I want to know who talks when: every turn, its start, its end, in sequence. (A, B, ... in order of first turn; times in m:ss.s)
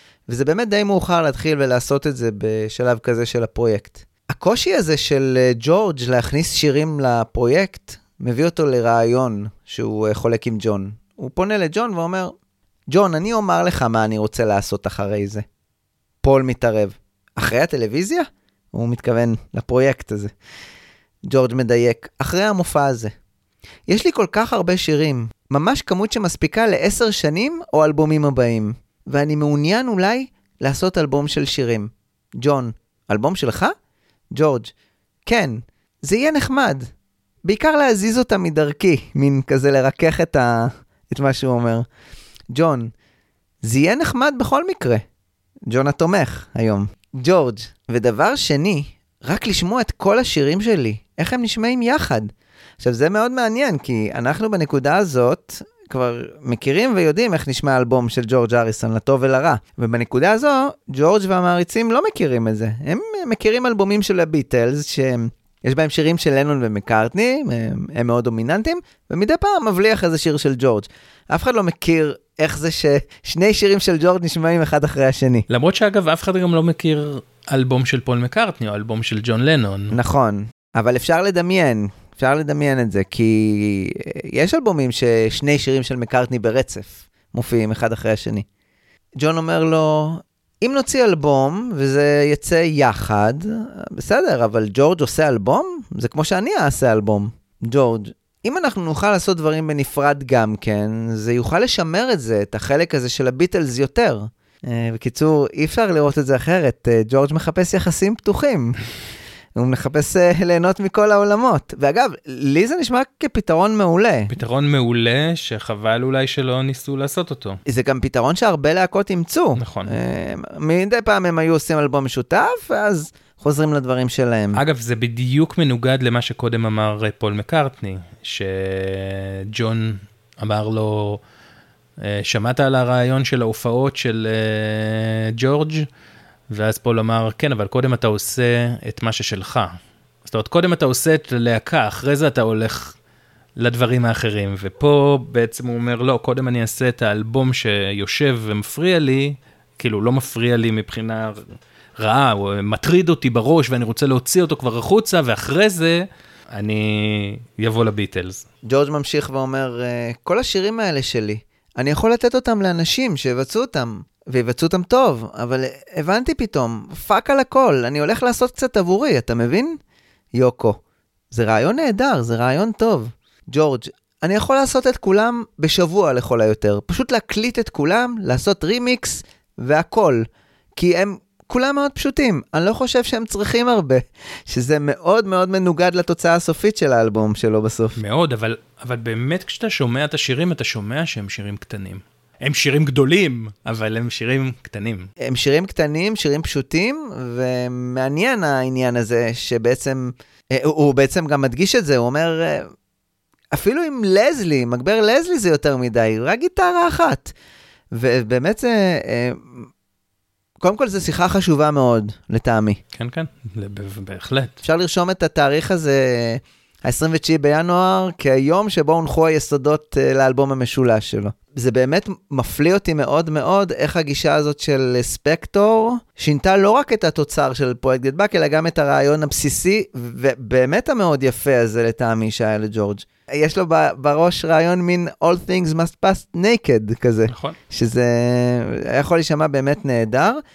0:00.3-0:12.3 A
0:12.9-0:15.4 A
0:16.2-0:20.3 A
0:21.3-0:23.1 A
0:23.9-0:33.8 A
0:34.3-0:34.7 A
0:35.3-0:36.9 A
0:37.4-0:41.9 A
0:42.5-0:42.9 A
0:43.6-0:45.0 A
0:45.7-1:15.5 A
1:15.5-1:20.0 B
1:19.9-1:28.5 A
1:29.2-1:48.8 A
1:49.6-1:54.3 A
1:54.3-1:57.6 B
1:57.7-2:04.6 A
1:59.6-1:59.9 B
2:04.6-2:11.2 B
2:12.0-2:15.9 B
2:16.5-2:19.7 B
2:20.3-2:23.0 B
2:23.6-2:38.4 B
2:38.6-2:49.8 A
2:50.3-2:50.8 A
2:51.3-3:08.0 A
3:08.0-3:15.1 B
3:15.2-3:22.7 A
3:23.5-3:27.3 A
3:27.9-3:29.7 A
3:30.6-3:32.8 A
3:33.0-3:34.6 B
3:34.6-4:00.4 A
3:57.3-3:57.6 B